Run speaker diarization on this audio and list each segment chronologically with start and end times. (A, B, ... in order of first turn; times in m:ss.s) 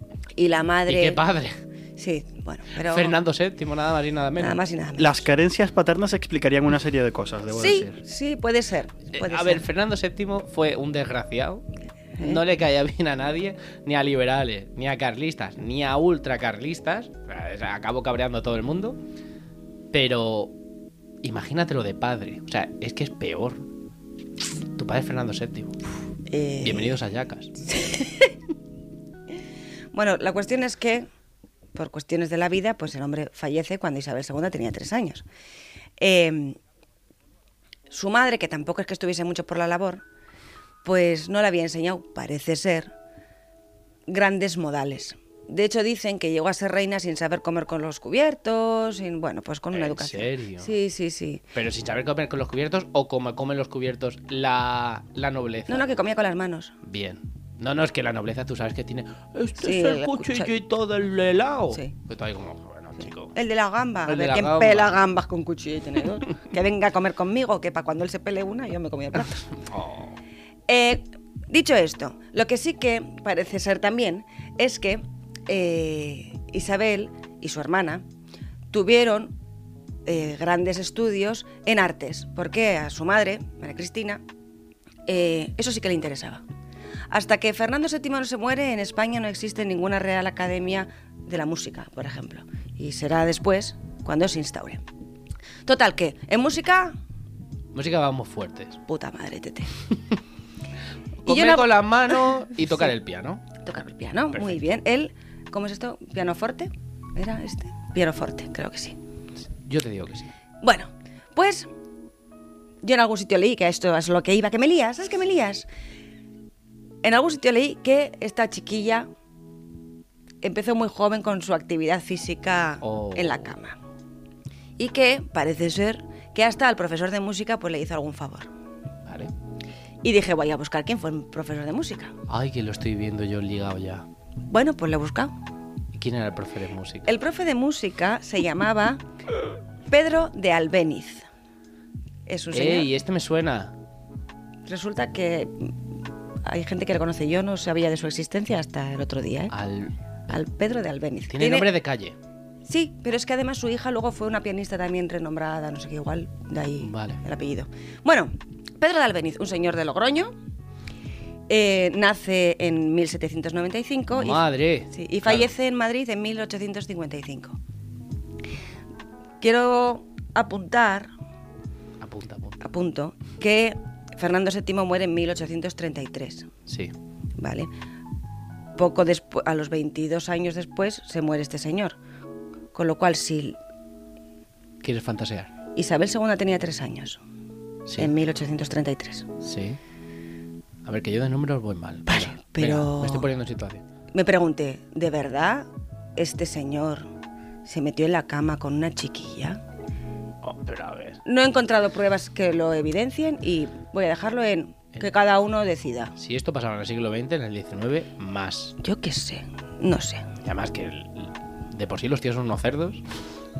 0:00.4-0:01.2 A
0:00.9-0:01.5 B
0:02.0-0:03.2 A
0:02.8-0:04.6 B
0:04.4-0:05.2 A
0:05.0-0:08.0 C
0:07.5-0:09.6 A
0:09.1-0:11.6 B
0:12.2-0:19.0 B
0:19.9-0:20.5 B
0:21.2-0:23.6 B
0:24.8-0:25.8 B
0:26.3-0:26.9 A
0:26.6-0:27.5 B
0:27.6-0:28.3 A
0:29.9-0:31.1 A
0:31.7-0:35.2 A
0:36.0-0:36.6 A
0:37.9-0:40.0 A
0:40.8-0:42.9 A
0:44.1-0:51.4 A
0:49.7-0:50.7 B
0:51.5-0:55.9 B
0:55.7-0:56.7 A
0:56.8-1:03.3 B
0:59.6-1:00.5 A
1:01.7-1:02.0 A
1:03.3-1:09.4 A
1:04.1-1:05.0 B
1:09.4-1:10.2 B
1:10.7-1:18.0 A
1:18.7-1:19.3 A
1:20.0-1:24.2 A
1:25.1-1:26.4 A
1:27.1-1:34.8 A
1:35.6-1:37.0 A
1:37.7-1:38.8 B
1:38.9-1:39.7 A
1:41.2-1:43.4 B
1:41.3-1:42.9 A
1:43.6-1:49.0 A
1:44.3-1:44.7 B
1:49.6-1:50.3 B
1:50.6-1:51.7 A
1:52.8-1:55.7 A
1:57.0-1:59.1 A
2:00.4-2:03.8 A
2:02.8-2:03.5 B
2:04.8-2:08.5 A
2:09.0-2:09.3 B
2:10.0-2:12.1 A
2:12.3-2:14.0 B
2:14.5-2:15.3 A
2:15.9-2:17.1 B
2:17.0-2:19.0 A
2:19.9-2:21.3 A
2:22.3-2:22.9 A
2:22.5-2:23.7 B
2:24.7-2:25.7 A
2:26.4-2:29.5 A
2:29.5-2:29.9 B
2:30.3-2:31.7 A
2:31.3-2:32.2 B
2:32.6-2:40.3 A
2:36.8-2:37.2 B
2:41.5-2:47.6 A
2:44.1-2:45.5 B
2:49.4-2:51.1 A
2:52.0-2:52.6 B
2:52.6-2:56.5 A
2:56.7-2:56.9 B
2:57.4-2:57.7 A
2:58.8-3:02.0 A
3:02.7-3:03.6 A
3:04.8-3:05.5 B
3:05.7-3:07.2 A
3:07.9-3:08.1 B
3:08.0-3:09.3 A
3:09.4-3:09.8 B
3:10.8-3:13.8 B
3:12.1-3:13.3 A
3:14.1-3:17.1 A
3:17.6-3:19.6 A
3:20.4-3:21.2 B
3:21.2-3:26.1 A
3:26.2-3:28.8 B
3:28.8-3:30.3 A
3:30.4-3:33.0 B